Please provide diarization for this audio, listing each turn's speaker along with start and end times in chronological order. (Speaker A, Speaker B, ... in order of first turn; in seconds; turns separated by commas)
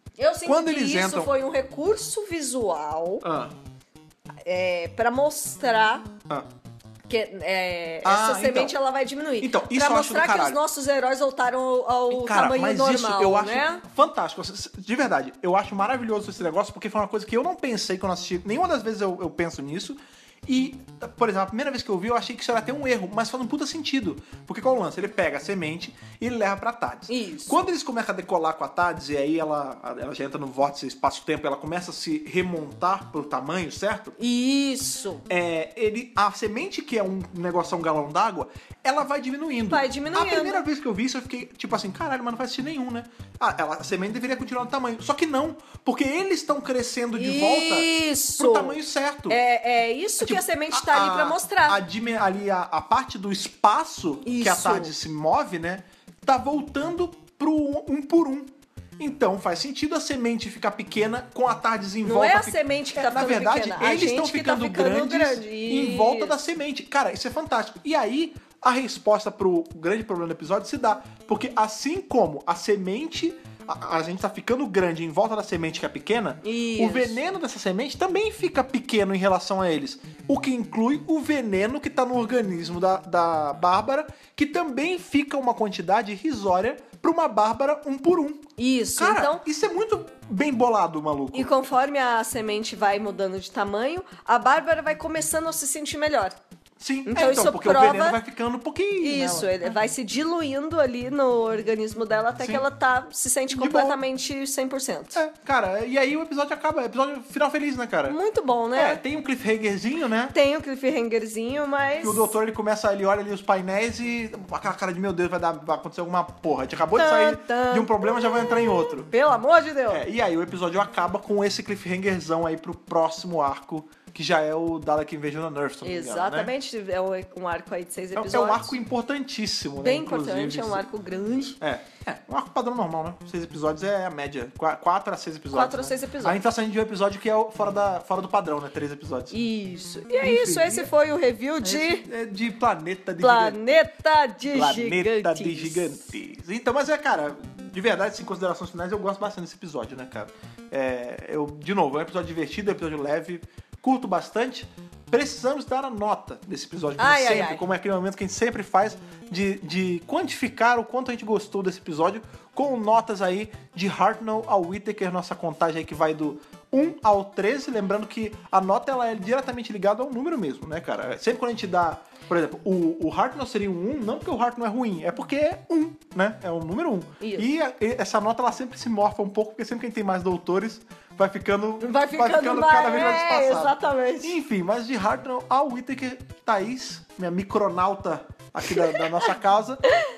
Speaker A: 0.2-3.3, Speaker B: 0.4-1.3, Speaker B: 3.2-3.5, Speaker A: 4.4-6.1, Speaker A: 7.1-13.8, Speaker B: 8.0-8.8, Speaker B: 9.4-10.6, Speaker B: 12.1-34.1, Speaker A: 27.1-27.7, Speaker A: 34.2-35.2, Speaker B: 35.3-49.4, Speaker A: 39.7-40.6, Speaker A: 47.1-51.8, Speaker B: 50.2-91.5, Speaker A: 54.2-54.9, Speaker A: 62.0-66.3, Speaker A: 76.4-77.3, Speaker A: 88.6-89.4, Speaker A: 91.3-96.3, Speaker B: 96.8-99.7, Speaker A: 97.1-98.2, Speaker A: 99.0-105.2, Speaker B: 102.4-102.6, Speaker B: 103.5-104.0, Speaker B: 105.1-108.2, Speaker A: 108.1-109.0, Speaker B: 108.7-110.3, Speaker A: 110.3-112.3, Speaker B: 112.0-119.1, Speaker A: 117.0-120.0, Speaker B: 119.9-126.5, Speaker A: 125.8-128.8, Speaker B: 128.1-130.8, Speaker A: 129.8-131.6, Speaker B: 131.6-139.3, Speaker A: 135.5-136.4, Speaker A: 139.3-142.1, Speaker B: 140.2-140.9, Speaker B: 141.6-143.8, Speaker A: 143.2-145.9, Speaker B: 144.5-189.8, Speaker A: 157.0-157.6, Speaker A: 177.2-177.5, Speaker A: 181.8-184.3, Speaker A: 188.7-189.3